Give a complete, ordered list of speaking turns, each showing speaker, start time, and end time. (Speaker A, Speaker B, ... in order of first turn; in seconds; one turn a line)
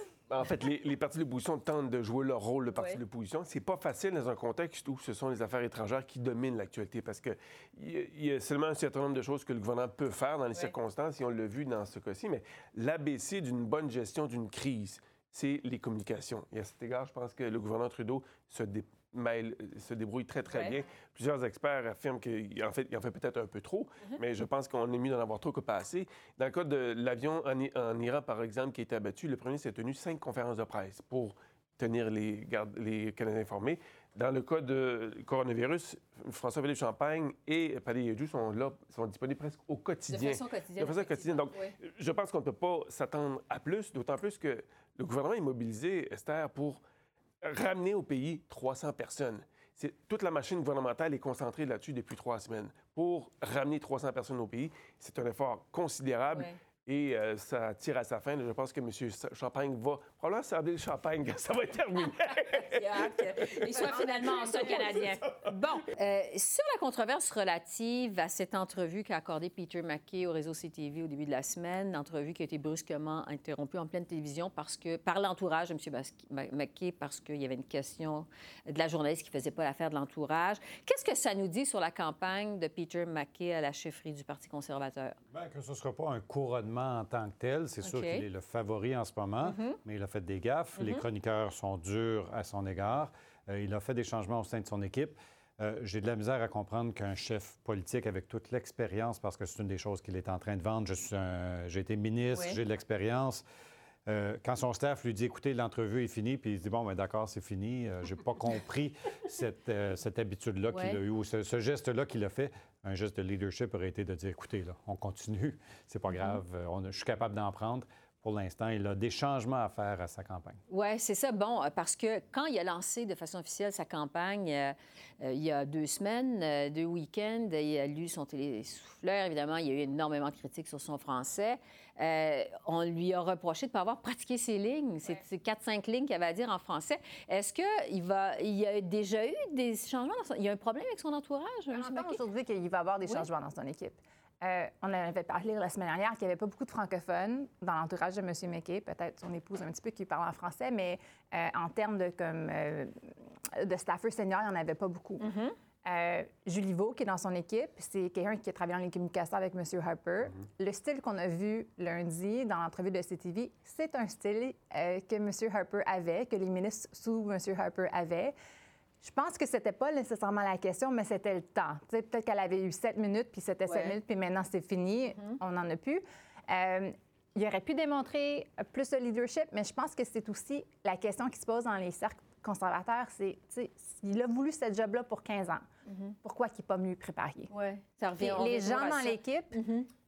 Speaker A: 0.3-46.8
Speaker B: 2.7-3.0
Speaker B: 20.5-20.8
Speaker B: 40.1-41.8
Speaker A: 47.4-65.5
Speaker B: 62.5-85.2
Speaker C: 85.3-103.4
Speaker B: 87.8-88.2
Speaker B: 89.4-89.8
Speaker B: 90.8-91.0
Speaker B: 102.3-102.6
Speaker C: 104.0-120.6
Speaker B: 110.7-111.0
Speaker B: 120.7-142.2
Speaker D: 141.7-152.9
Speaker D: 153.6-155.3
Speaker B: 155.2-155.6
Speaker D: 155.8-168.3
Speaker D: 169.0-185.7
Speaker B: 173.7-174.0
Speaker B: 185.8-186.1
Speaker D: 186.2-187.5
Speaker B: 187.5-189.9
Speaker D: 188.2-189.6